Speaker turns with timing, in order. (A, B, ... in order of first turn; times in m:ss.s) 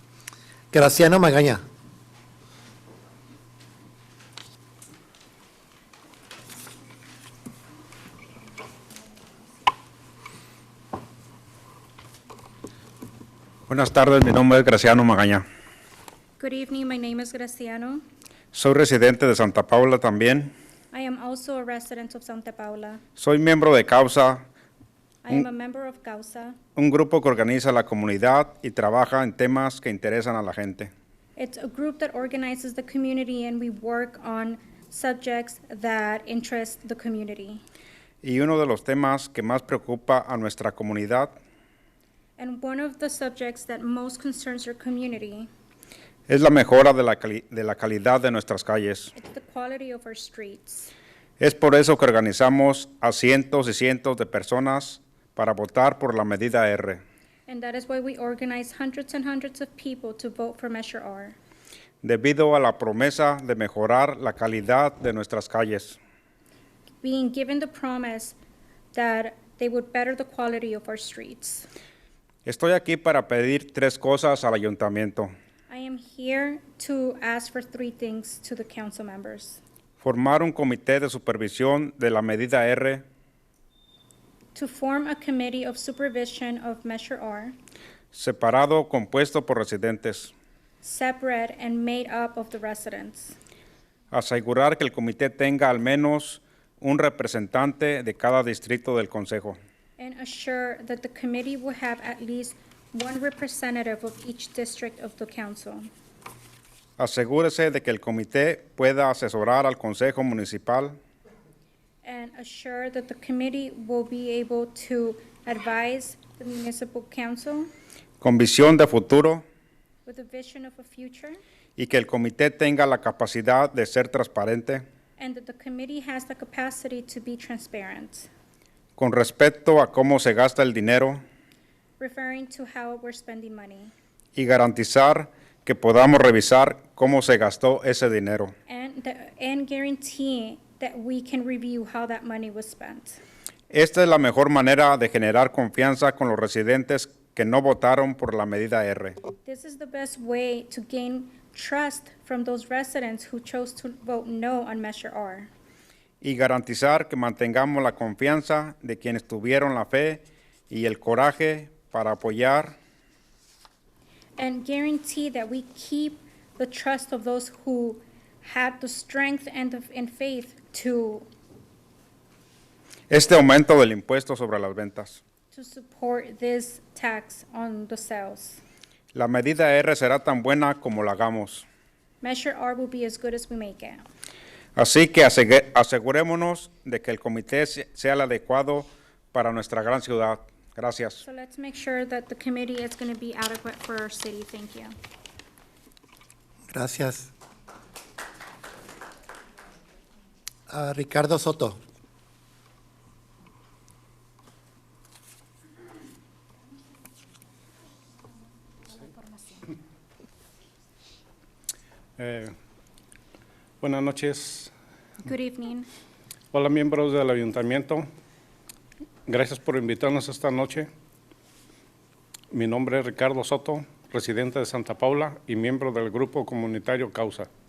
0:00.7-0:01.6 A
0:13.7-0:15.4 B
0:16.4-0:18.0 C
0:18.5-0:20.5 B
0:20.9-0:23.0 C
0:23.2-0:24.5 B
0:25.2-0:26.6 C
0:26.8-0:30.9 B
0:31.4-0:37.6 C
0:38.2-0:41.4 B
0:42.4-0:45.5 C
0:46.3-0:49.1 B
0:49.2-0:50.9 C
0:51.4-0:57.0 B
0:57.5-1:01.4 C
1:02.0-1:06.0 B
1:07.0-1:08.4 C
1:08.9-1:11.7 C
1:12.4-1:15.3 B
1:15.7-1:19.6 C
1:20.0-1:23.0 B
1:24.6-1:27.6 C
1:28.1-1:30.3 B
1:30.8-1:33.4 C
1:34.1-1:39.6 B
1:40.0-1:45.9 C
1:47.0-1:51.0 B
1:52.0-1:57.7 C
1:58.2-1:59.4 B
2:00.1-2:01.4 C
2:01.8-2:04.8 B
2:05.2-2:08.3 C
2:09.0-2:11.2 B
2:12.0-2:13.9 C
2:14.4-2:18.5 B
2:18.7-2:23.2 C
2:23.7-2:29.2 B
2:29.4-2:35.5 C
2:36.2-2:42.8 B
2:44.4-2:51.2 C
2:53.1-2:55.2 B
2:55.5-2:58.6 C
2:59.1-3:01.7 B
3:02.2-3:04.0 C
3:04.8-3:11.2 B
3:11.2-3:14.9 C
3:16.7-3:17.3 A
3:20.7-3:21.8 A
3:32.2-3:32.5 D
3:33.8-3:34.7 D
3:35.2-3:35.9 C
3:36.5-3:38.0 D
3:39.3-3:40.9 D
3:42.5-3:47.5 D